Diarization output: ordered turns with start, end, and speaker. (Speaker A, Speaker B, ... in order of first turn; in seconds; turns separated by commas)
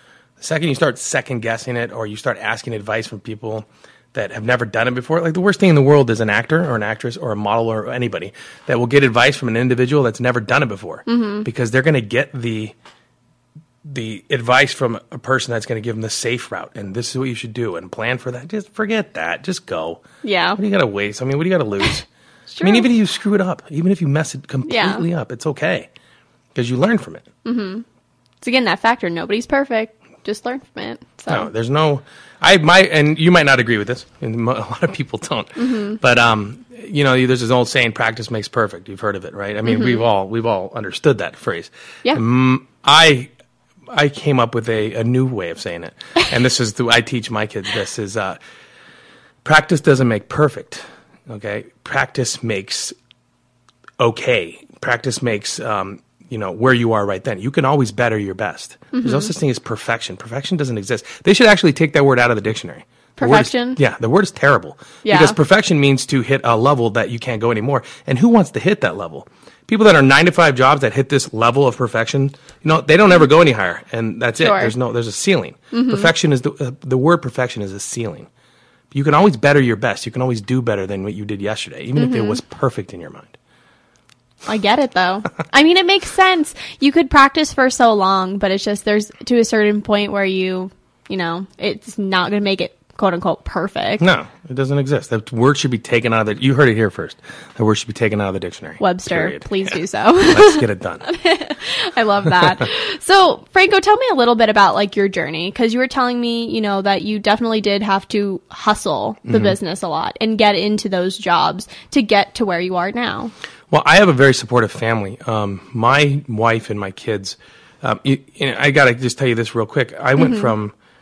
Speaker A: 0.4-12.7, Speaker B: 11.1-11.4, Speaker A: 13.8-20.0, Speaker B: 20.2-20.6, Speaker A: 20.6-22.1, Speaker B: 22.5-22.9, Speaker A: 22.6-25.9, Speaker B: 24.6-25.0, Speaker A: 26.5-27.3, Speaker B: 27.4-27.8, Speaker B: 28.4-31.5, Speaker A: 31.3-43.3, Speaker B: 35.6-36.0, Speaker B: 39.6-40.0, Speaker A: 43.9-48.4, Speaker A: 49.4-52.9, Speaker A: 54.0-78.3, Speaker B: 58.9-59.3, Speaker B: 63.2-63.8, Speaker B: 65.0-65.4, Speaker B: 74.4-74.7, Speaker B: 75.7-76.1, Speaker A: 78.9-83.3, Speaker B: 82.0-82.4, Speaker B: 84.5-94.0, Speaker A: 94.0-101.1, Speaker B: 98.8-113.3, Speaker A: 102.4-102.6, Speaker A: 109.3-109.5, Speaker A: 113.7-120.7, Speaker B: 120.2-120.5